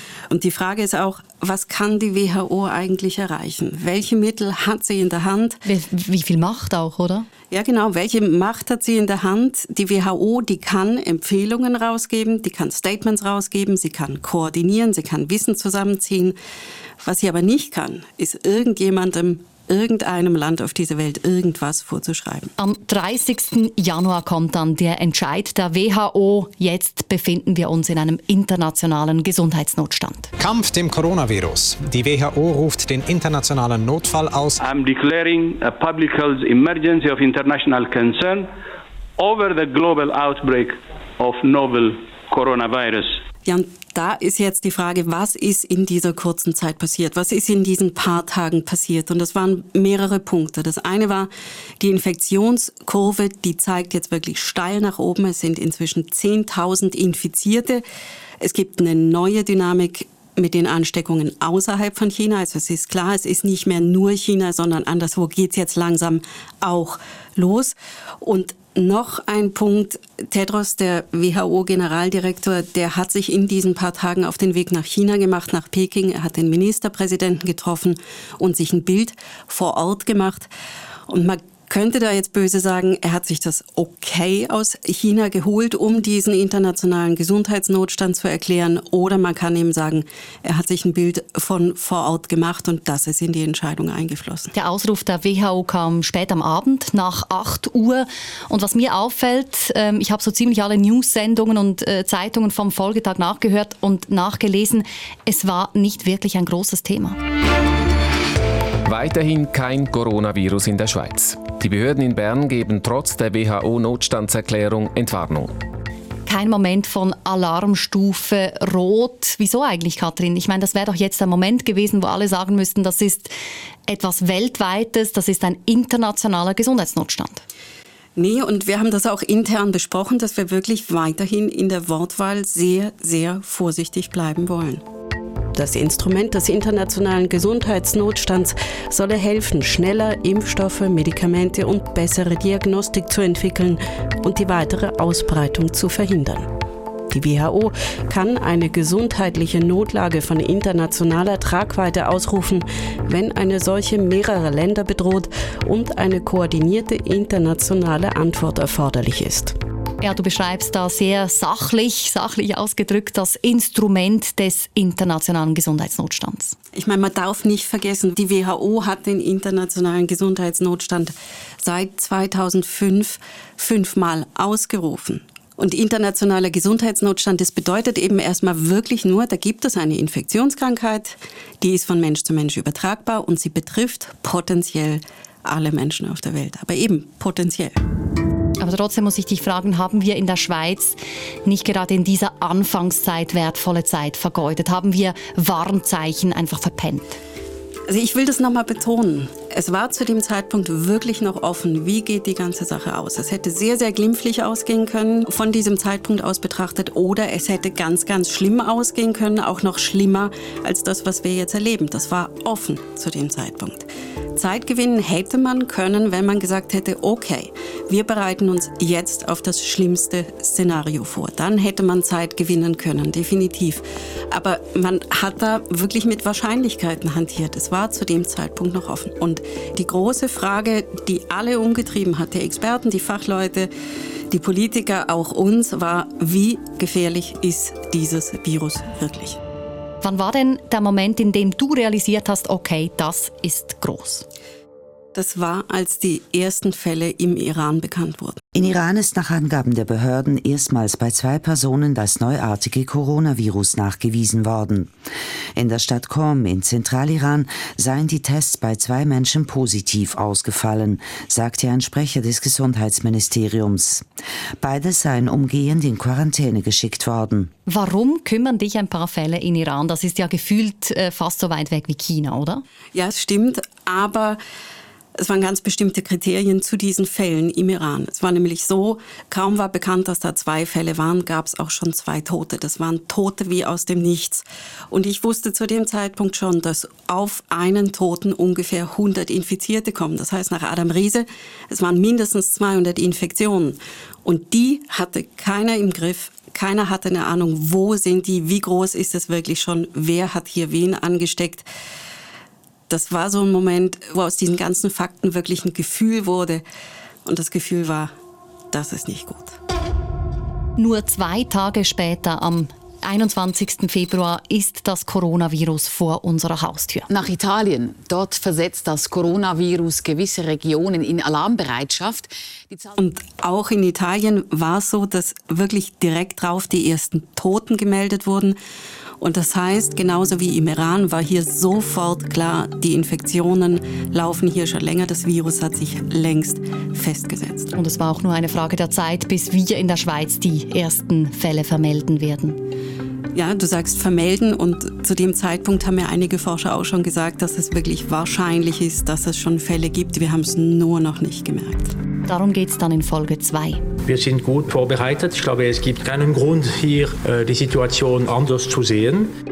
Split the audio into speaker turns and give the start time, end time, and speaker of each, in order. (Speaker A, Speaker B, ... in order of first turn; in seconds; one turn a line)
Speaker A: 0.3-5.6
Speaker B: 5.6-7.3
Speaker A: 7.5-16.3
Speaker A: 17.0-22.5
Speaker B: 22.6-30.3
Speaker C: 30.4-34.6
Speaker D: 34.6-38.5
Speaker D: 39.2-43.1
Speaker A: 43.5-57.8
Speaker A: 58.4-80.5
Speaker A: 81.1-94.5
Speaker B: 94.5-107.2
Speaker E: 108.8-115.5
Speaker B: 116.3-123.3
Speaker B: 123.9-127.4
Speaker A: 128.2-134.8
Speaker A: 135.6-146.5
Speaker A: 147.1-159.5
Speaker B: 160.0-166.5
Speaker A: 166.7-187.7
Speaker B: 188.6-197.2
Speaker A: 197.9-233.7
Speaker A: 234.3-239.4
Speaker B: 240.0-244.2
Speaker A: 245.1-248.4
Speaker F: 248.5-254.9
Speaker F: 255.6-264.0
Speaker F: 264.6-267.5
Speaker B: 267.7-272.6
Speaker A: 272.9-274.4
Speaker A: 275.2-301.6
Speaker A: 302.9-306.6
Speaker A: 307.2-308.1
Speaker A: 308.7-309.6
Speaker B: 310.8-317.1
Speaker G: 317.1-322.9
Speaker A: 323.0-328.6
Speaker A: 329.2-337.7
Speaker B: 337.7-342.6
Speaker A: 343.3-351.9
Speaker B: 352.2-353.8
Speaker H: 354.0-359.3